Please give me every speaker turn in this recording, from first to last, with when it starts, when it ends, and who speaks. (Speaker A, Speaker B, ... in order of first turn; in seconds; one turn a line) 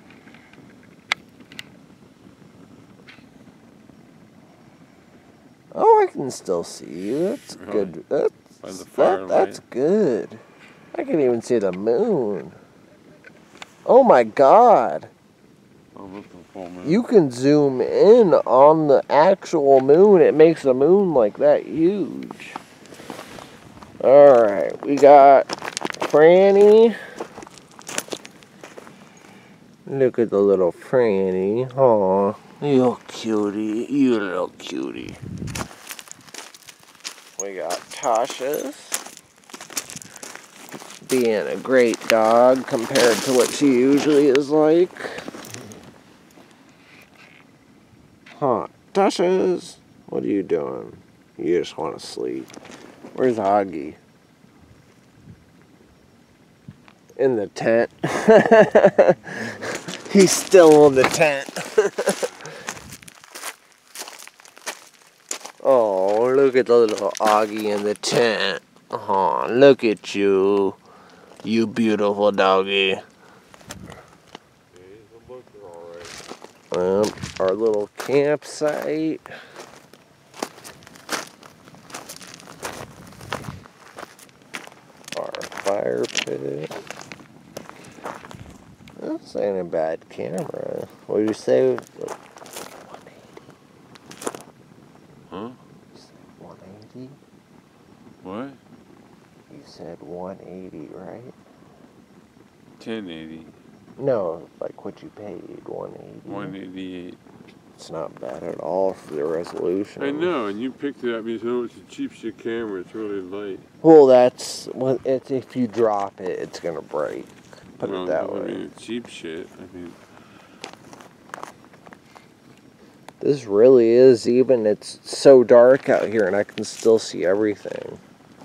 Speaker A: 5.7-10.4
Speaker B: 7.5-8.0
Speaker B: 8.6-9.6
Speaker A: 10.9-12.6
Speaker A: 13.9-15.1
Speaker B: 15.9-17.0
Speaker A: 16.8-22.6
Speaker A: 24.0-25.5
Speaker A: 26.0-27.0
Speaker A: 29.9-35.2
Speaker A: 37.4-39.0
Speaker A: 41.1-45.2
Speaker A: 48.4-52.5
Speaker A: 53.1-54.0
Speaker A: 57.2-62.3
Speaker A: 65.6-70.8
Speaker A: 71.4-73.0
Speaker B: 74.7-76.2
Speaker A: 76.7-79.2
Speaker A: 85.1-86.8
Speaker A: 89.0-92.2
Speaker A: 92.8-93.5
Speaker B: 95.3-95.6
Speaker A: 95.9-97.2
Speaker B: 98.2-98.6
Speaker A: 99.5-101.4
Speaker B: 102.8-103.5
Speaker A: 104.0-106.6
Speaker B: 106.2-107.2
Speaker A: 107.8-110.3
Speaker B: 110.0-113.7
Speaker A: 113.8-118.7
Speaker B: 117.8-120.0
Speaker A: 123.2-128.0